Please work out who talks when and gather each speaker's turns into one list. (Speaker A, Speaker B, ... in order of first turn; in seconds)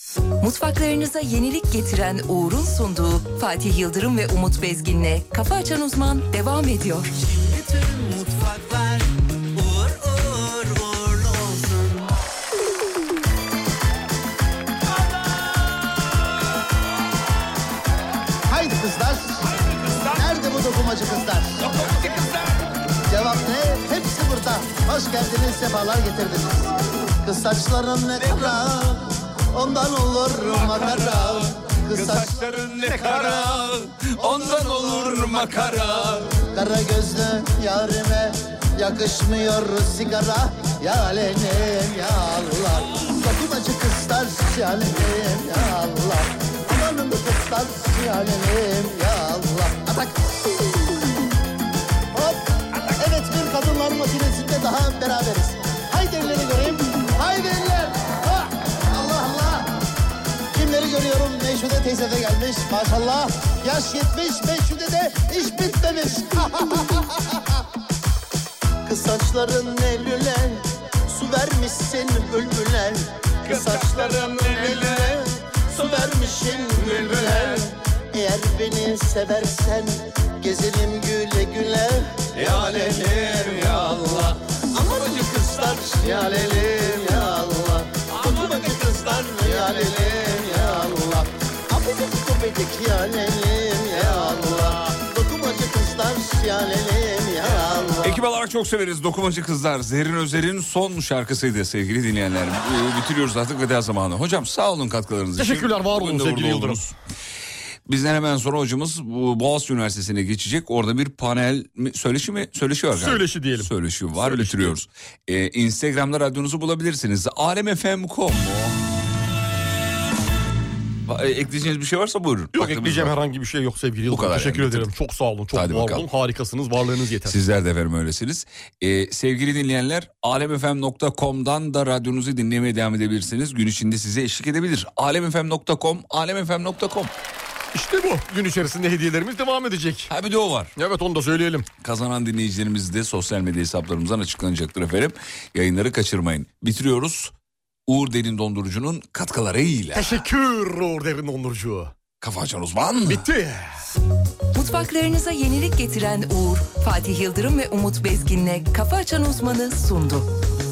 Speaker A: 0.4-7.1, 154.5-160.3
Speaker B: 7.2-12.1
Speaker C: 18.5-19.5, 20.1-21.8, 23.1-50.7, 52.1-59.7, 60.5-67.2, 68.8-98.2
Speaker D: 19.8-20.2, 21.6-22.6, 28.2-28.6, 30.5-36.3, 73.4-75.2, 75.8-76.1, 76.7-77.7, 82.3-86.0, 88.1-89.0, 98.0-106.9, 107.8-118.8, 121.0-123.1, 124.0-124.9, 125.5-126.1, 127.2-137.1, 140.1-140.7, 141.8-147.3, 147.9-150.2, 152.2-153.3
Speaker E: 105.4-106.9, 112.9-114.8, 122.5-127.4, 137.7-140.1, 140.8-141.7, 149.9-151.9, 153.1-153.8